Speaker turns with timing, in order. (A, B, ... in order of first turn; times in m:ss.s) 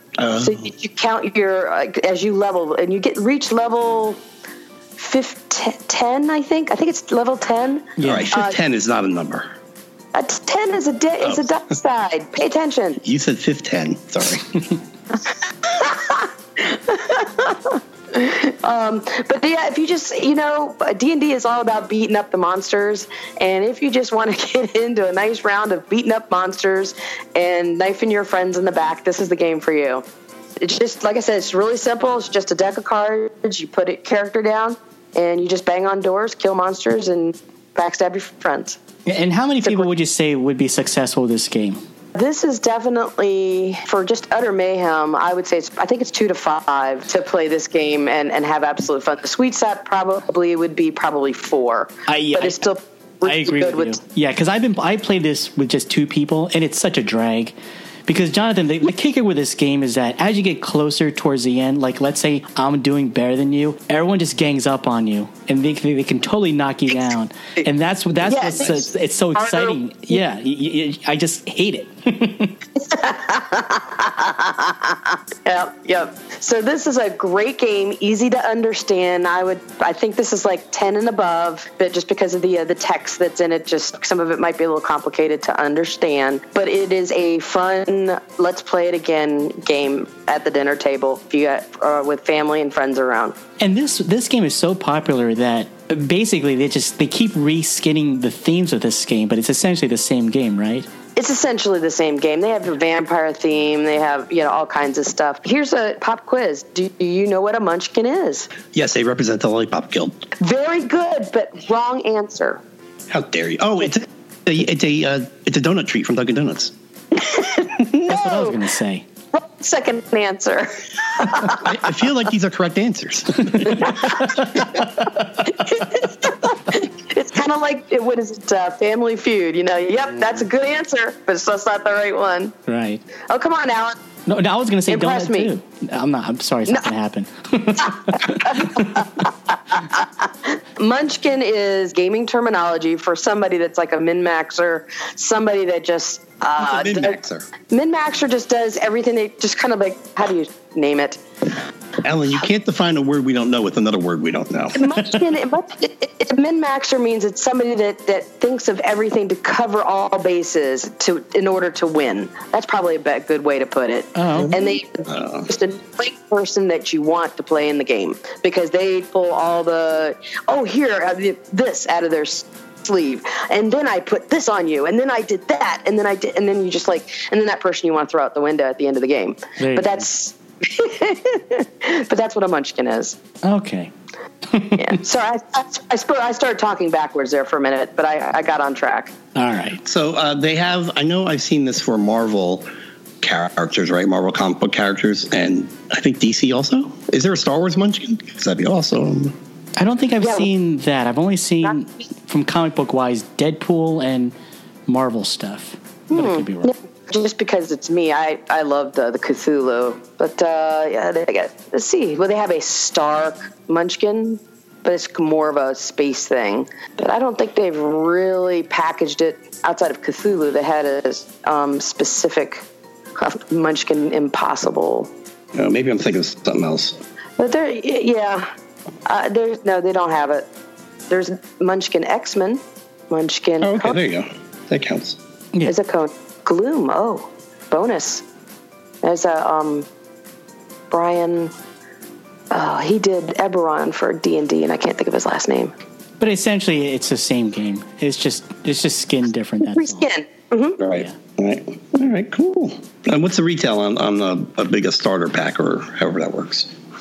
0:00.2-0:00.7 A
0:00.4-0:04.2 B
0:05.0-0:08.6 B
0:08.0-0:08.3 C
0:08.0-0:09.5 A
0:10.1-0:13.0 B
0:11.2-0:11.5 A
0:13.0-0:14.4 A
0:15.3-0:30.0 B
0:30.6-0:38.8 B
0:39.0-0:41.8 C
0:42.1-0:54.0 B
0:52.1-0:52.6 C
0:53.2-0:57.6 C
0:58.1-1:12.6 C
1:08.3-1:09.8 B
1:12.8-1:33.4 B
1:33.6-1:40.9 C
1:41.2-1:48.5 B
1:48.7-1:50.2 A
1:50.4-1:52.6 B
1:53.1-1:56.7 A
1:57.1-1:58.6 B
1:57.8-1:59.0 C
1:59.3-2:01.8 B
2:01.6-2:04.6 A
2:03.5-2:05.2 C
2:03.7-2:04.3 B
2:05.4-2:12.5 B
2:12.6-2:13.0 C
2:13.3-2:14.0 B
2:14.3-2:19.0 C
2:14.9-2:15.5 B
2:18.1-2:31.2 B
2:26.6-2:27.5 A
2:32.0-2:34.8 A
2:34.7-3:03.2 B
2:44.1-2:44.6 C
2:44.3-2:45.4 A
2:59.6-3:00.0 C
3:03.4-3:03.9 C
3:04.5-3:05.0 C
3:04.8-3:09.1 B
3:09.3-3:09.8 C
3:09.8-3:12.6 A
3:13.2-3:19.3 A
3:19.8-3:24.3 C
3:20.2-3:20.5 B
3:24.9-3:26.7 C
3:26.1-3:42.6 B
3:43.2-3:45.1 B
3:45.6-3:47.0 A
3:47.4-3:48.5 B
3:49.0-3:50.5 B
3:51.1-3:54.0 B
3:53.6-3:55.2 A
3:55.6-3:58.2 B
3:59.0-3:59.9 B
4:00.9-4:01.5 B
4:02.5-4:05.7 B
4:06.2-4:10.0 C
4:09.6-4:10.8 B
4:10.8-4:16.7 A